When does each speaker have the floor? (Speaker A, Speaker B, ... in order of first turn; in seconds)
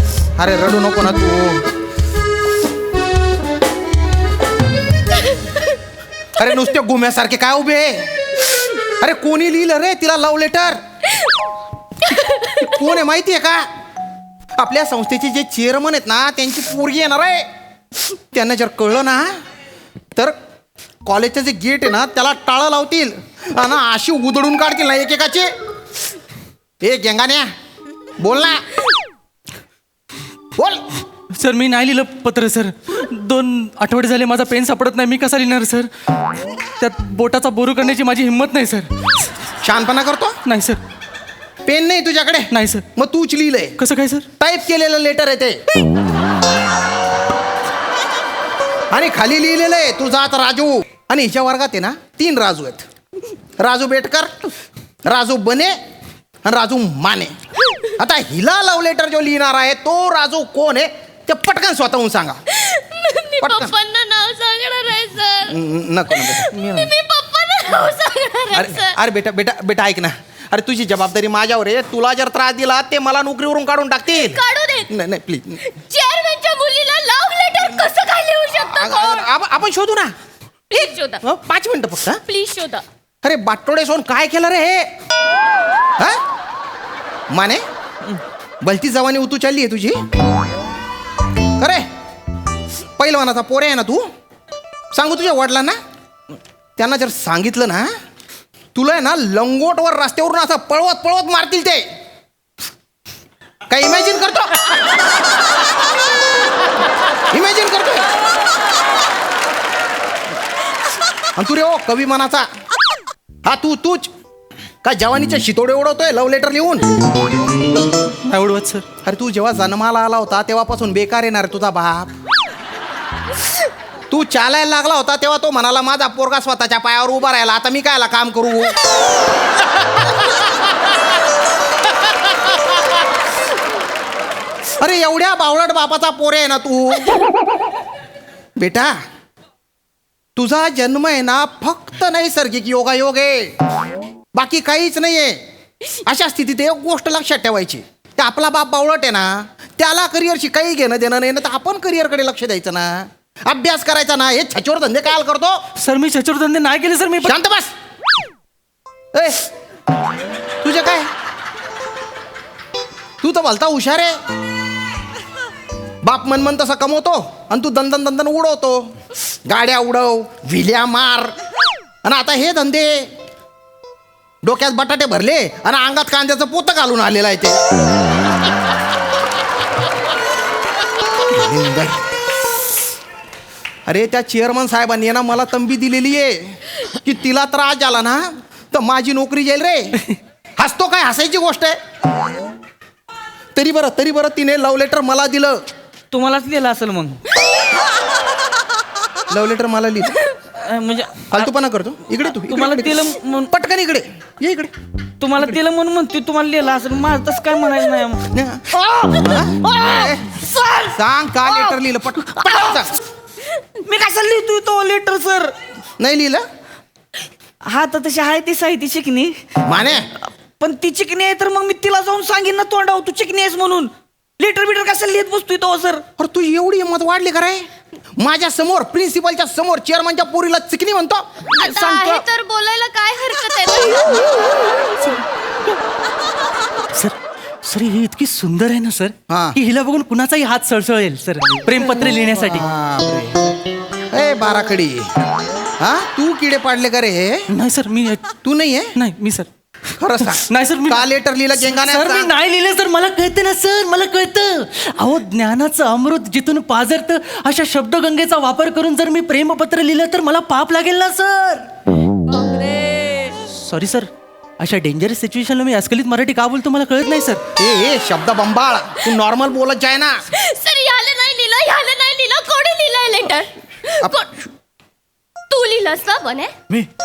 Speaker A: 0.4-1.6, 6.4-8.1, 9.0-10.8, 12.3-13.6, 14.6-17.4, 18.3-19.3, 21.0-25.5, 26.8-27.4, 28.2-28.6, 30.6-30.8, 39.6-40.3, 41.6-43.7, 44.4-45.6, 48.9-52.8, 53.6-54.5, 55.0-55.7, 56.4-57.3, 58.0-62.4, 63.4-63.7, 65.5-66.5, 68.5-75.6, 78.5-80.1, 81.2-82.2, 83.2-84.9, 87.3-87.6, 88.6-90.0, 91.6-91.8, 93.0-94.1, 94.9-95.8, 96.8-97.9, 98.7-101.8, 103.7-104.8, 107.3-108.0, 111.3-112.5, 113.4-114.1, 114.8-116.9, 119.0-122.1, 124.1-128.7, 134.8-137.2, 138.6-138.9, 140.3-143.5, 144.3-145.4, 146.0-155.6, 157.2-157.7, 159.1-159.4, 160.6-161.1, 163.2-164.2, 166.0-168.9, 169.4-171.3, 172.0-173.1, 174.4-177.6, 181.3-182.0, 183.9-190.0, 190.6-191.8, 193.5-195.6, 199.3-200.2, 201.3-204.7, 208.3-208.7, 209.2-210.2, 210.9-212.9, 216.0-216.4, 219.7-220.1, 226.2-227.7, 228.2-231.3, 239.3-239.6, 242.4-243.3, 244.1-245.1, 245.8-247.4, 248.4-248.9, 250.0-252.3, 267.6-270.1
Speaker B: 12.1-12.8, 62.5-65.6, 66.2-68.9, 74.2-74.9, 75.6-79.3, 80.7-81.2, 82.3-82.8, 231.6-234.3, 270.3-274.3, 275.5-276.5
Speaker C: 31.3-35.9, 36.8-38.9, 40.5-40.8, 42.5-42.8, 43.8-44.2, 66.5-66.9, 118.3-118.8, 155.8-157.3, 236.9-242.6, 247.5-248.2, 249.0-249.5, 250.5-251.0, 251.6-261.6, 263.4-264.1, 264.6-267.4
Speaker D: 196.1-197.2, 200.6-201.5, 202.2-203.5, 205.2-208.2, 208.7-211.0, 211.5-211.7, 212.4-212.9, 213.8-215.5, 217.6-219.4, 220.6-226.0, 231.5-232.2